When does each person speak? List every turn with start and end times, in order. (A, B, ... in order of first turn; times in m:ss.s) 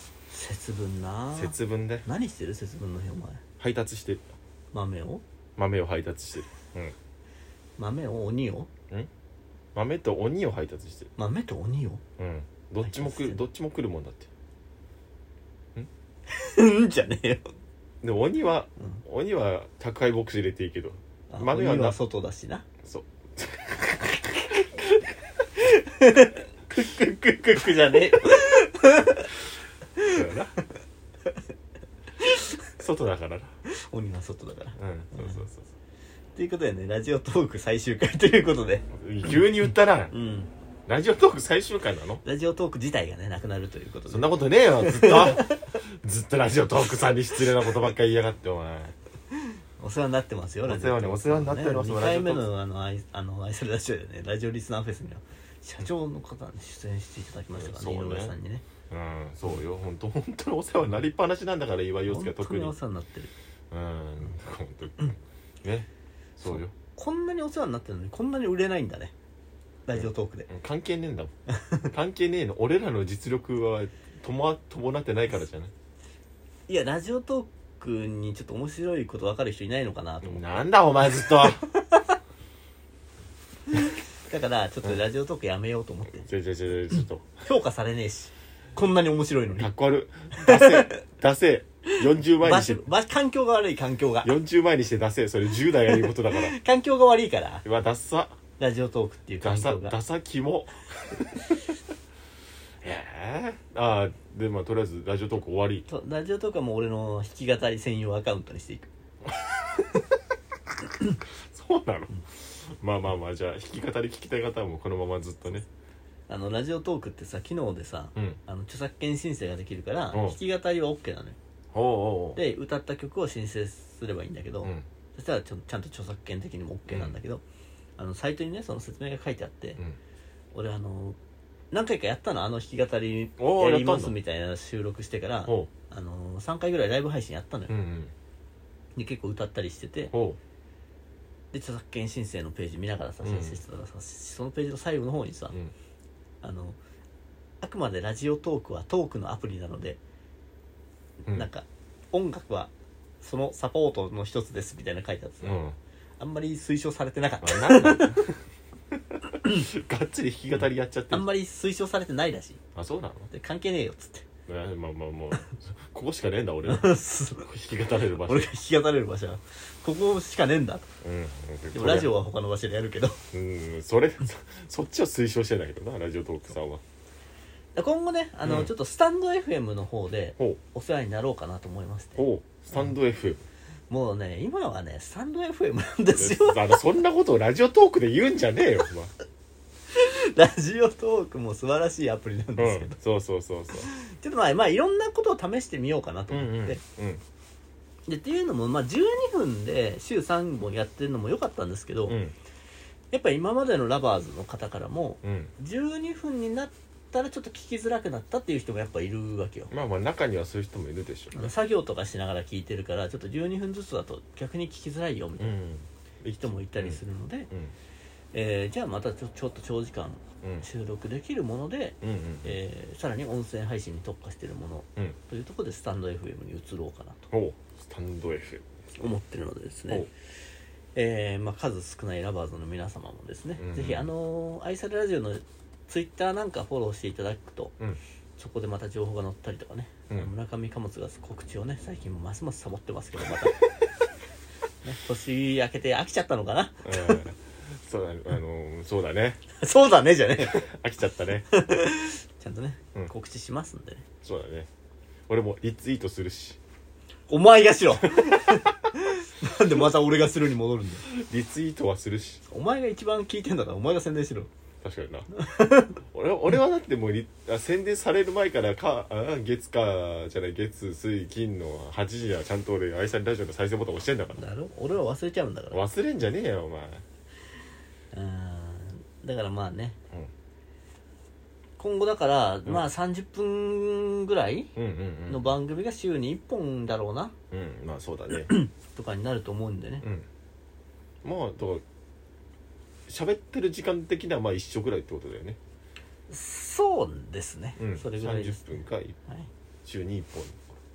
0:00.3-0:03.4 A
0:01.4-0:02.0 B
0:03.6-0:04.2 B
0:04.7-0:05.2 A
0:05.6-0:06.9 B
0:07.8-0:08.7 A
0:09.7-0:11.1 B
0:11.2-0:12.0 A
0:12.2-0:14.3 B
0:12.8-0:13.4 A
0:16.3-0:17.4 A
0:18.0-0:22.0 B
0:21.3-0:22.6 A
0:22.8-0:25.0 B
0:25.6-0:29.3 A
0:30.0-0:30.6 A
0:30.1-0:30.5 B
0:32.2-0:32.6 A
0:32.8-0:33.5 B
0:33.7-0:35.4 A
0:34.8-0:35.6 B
0:36.4-0:38.8 A
0:38.9-0:40.1 B
0:40.1-0:40.5 A
0:40.9-0:42.2 B
0:42.2-0:45.6 A
0:44.1-0:48.9 B
0:49.3-0:58.6 A
0:50.6-0:52.5 B
0:57.5-0:58.4 B
0:58.9-1:02.7 B
1:02.1-1:03.3 A
1:03.7-1:06.7 B
1:06.5-1:09.1 A
1:09.9-1:10.5 A
1:10.0-1:11.3 B
1:11.6-1:11.8 A
1:11.9-1:15.7 B
1:16.7-1:20.5 A
1:20.2-1:21.6 B
1:21.1-1:22.1 A
1:23.7-1:26.3 A
1:26.2-1:27.3 B
1:27.4-1:29.7 A
1:29.6-1:32.8 B
1:30.4-1:31.0 A
1:32.4-1:34.3 A
1:34.2-1:36.6 B
1:35.9-1:37.6 A
1:37.6-1:38.4 B
1:38.6-1:40.0 A
1:39.4-1:41.7 B
1:42.8-1:45.9 B
1:45.9-1:48.9 A
1:49.7-1:50.0 A
1:51.5-1:55.6 B
1:56.3-2:01.4 A
2:01.7-2:02.4 B
2:02.3-2:07.4 A
2:06.9-2:07.2 B
2:08.0-2:09.8 A
2:10.5-2:11.2 A
2:11.7-2:17.8 A
2:13.4-2:14.2 B
2:17.7-2:18.1 B
2:19.0-2:20.1 A
2:20.1-2:20.4 B
2:21.5-2:25.6 A
2:23.2-2:23.6 B
2:26.4-2:26.8 A
2:27.6-2:30.0 A
2:31.2-2:35.6 A
2:35.4-2:35.8 B
2:36.2-2:38.3 A
2:37.4-2:38.3 B
2:38.9-2:41.3 B
2:41.1-2:42.6 A
2:42.8-2:43.3 B
2:43.3-2:44.2 A
2:44.5-2:48.5 B
2:46.6-2:47.5 A
2:48.2-2:50.9 A
2:51.0-2:52.1 B
2:51.7-2:53.2 A
2:53.3-2:56.8 B
2:57.7-3:02.2 A
2:58.4-2:58.7 B
3:02.2-3:03.4 B
3:03.9-3:06.8 A
3:06.1-3:09.1 B
3:09.9-3:13.0 A
3:12.6-3:13.9 B
3:13.9-3:16.8 A
3:16.3-3:17.2 B
3:18.1-3:22.2 A
3:22.1-3:22.3 B
3:23.1-3:29.7 A
3:25.2-3:25.5 B
3:29.7-3:31.5 B
3:31.3-3:35.6 A
3:35.4-3:37.7 B
3:36.4-3:37.5 A
3:38.3-3:47.2 A
3:42.0-3:42.6 B
3:47.3-3:48.6 B
3:49.0-3:50.1 A
3:50.9-3:57.8 A
3:53.6-3:54.1 B
3:58.4-4:03.6 A
4:04.8-4:07.2 A
4:06.8-4:09.4 B
4:09.6-4:10.6 A
4:10.4-4:11.5 B
4:11.5-4:14.0 A
4:14.2-4:14.7 B
4:15.3-4:16.6 B
4:17.3-4:21.0 A
4:21.0-4:22.4 B
4:22.5-4:24.5 A
4:24.8-4:25.3 B
4:25.3-4:26.0 A
4:26.0-4:34.4 B
4:34.4-4:35.8 A
4:35.7-4:37.0 B
4:38.1-4:40.0 A
4:41.8-4:44.7 A
4:44.8-4:45.5 B
4:45.3-4:47.3 A
4:47.5-4:48.5 B
4:48.4-4:50.0 A
4:51.2-4:51.8 B
4:53.1-4:55.6 B
4:56.3-4:59.5 A
4:57.8-4:59.2 B
4:59.8-5:00.8 B